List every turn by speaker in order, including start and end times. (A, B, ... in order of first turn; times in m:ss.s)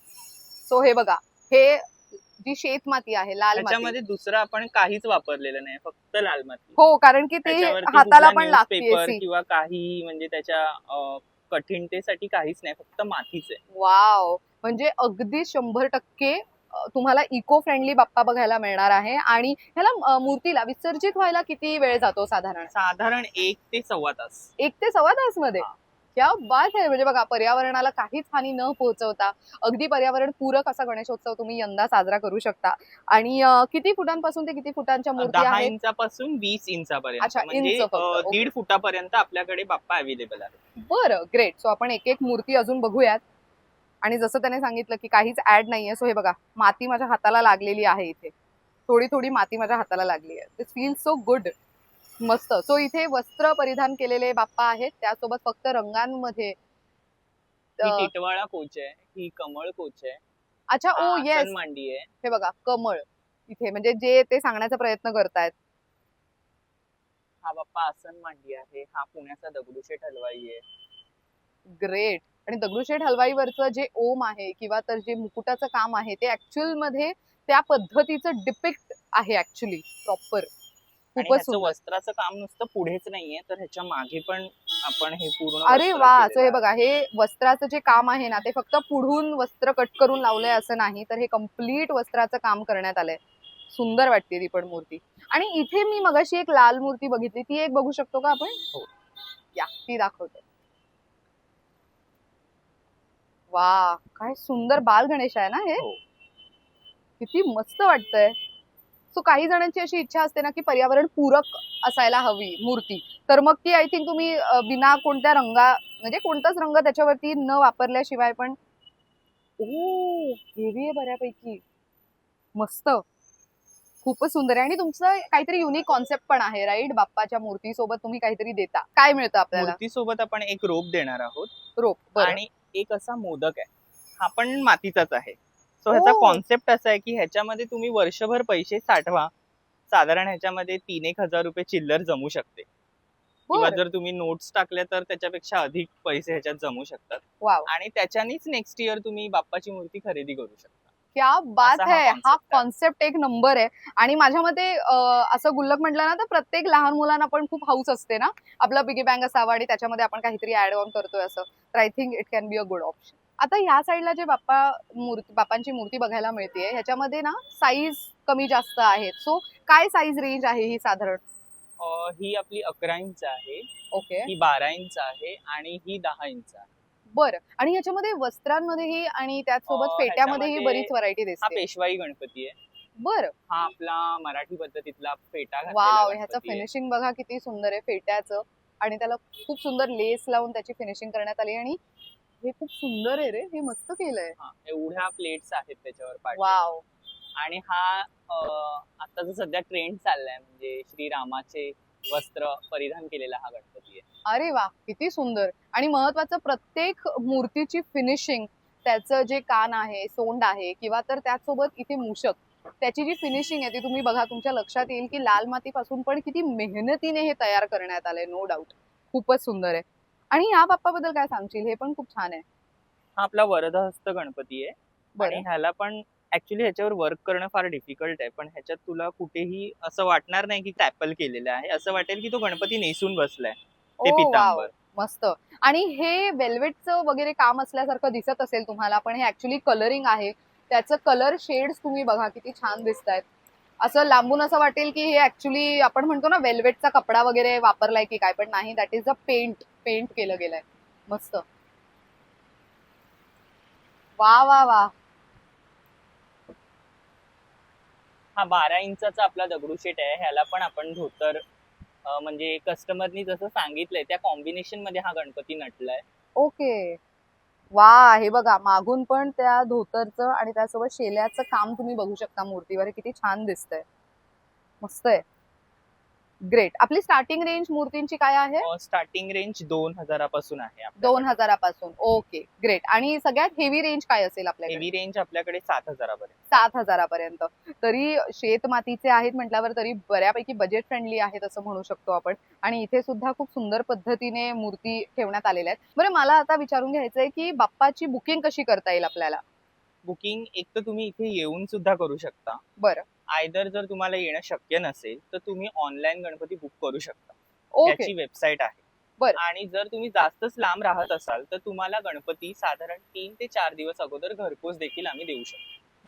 0:00.7-0:03.9 A
0:03.6-0:06.8 B
0:06.8-0:09.2 A
0:07.4-0:13.6 B
0:13.8-0:22.7 A
0:22.7-0:24.5 B
0:24.6-0:35.7 A
0:35.2-0:40.6 B
0:37.2-0:38.5 A
0:40.9-0:43.2 A
0:44.0-0:48.3 A
0:48.9-0:51.5 A
0:52.2-0:56.6 A
0:57.8-0:58.1 A
0:57.8-1:00.2 B
1:00.7-1:01.6 A
1:01.0-1:02.1 B
1:02.2-1:05.5 A
1:07.4-1:10.6 B
1:11.8-1:20.5 A
1:21.2-1:21.8 A
1:21.2-1:26.6 B
1:25.7-1:38.6 A
1:39.6-1:40.4 A
1:43.5-1:45.8 A
1:47.2-1:48.4 A
1:49.1-1:58.6 A
1:59.6-2:01.6 A
2:02.6-2:03.0 A
2:04.0-2:09.8 A
2:09.5-2:11.5 B
2:11.8-2:12.4 A
2:12.2-2:13.7 B
2:14.2-2:19.3 B
2:15.9-2:16.4 A
2:19.9-2:22.7 B
2:23.5-2:23.8 A
2:23.5-2:30.9 B
2:27.4-2:27.7 A
2:31.2-2:51.2 A
2:31.6-2:32.6 B
2:51.8-2:53.7 B
2:53.9-2:54.3 A
2:54.3-2:56.7 B
2:57.1-3:01.6 A
2:59.7-3:02.6 B
3:03.0-3:03.3 A
3:03.5-3:06.6 B
3:05.7-3:11.8 A
3:12.4-3:14.4 A
3:14.4-3:16.6 B
3:16.4-3:16.8 A
3:17.4-3:24.0 B
3:24.3-3:42.4 A
3:43.2-3:54.7 B
3:45.2-3:45.4 A
3:54.0-4:03.2 A
4:03.8-4:11.4 A
4:14.2-4:14.9 A
4:18.4-4:21.4 B
4:22.0-4:26.0 B
4:26.4-4:27.0 A
4:27.7-4:33.8 A
4:34.8-4:35.2 A
4:36.5-4:38.7 A
4:38.6-4:41.3 B
4:41.0-4:44.9 A
4:44.7-4:46.6 B
4:46.5-4:59.4 A
5:00.0-5:02.6 B
5:02.8-5:03.0 A
5:03.3-5:08.8 B
5:07.8-5:08.1 A
5:09.4-5:15.6 B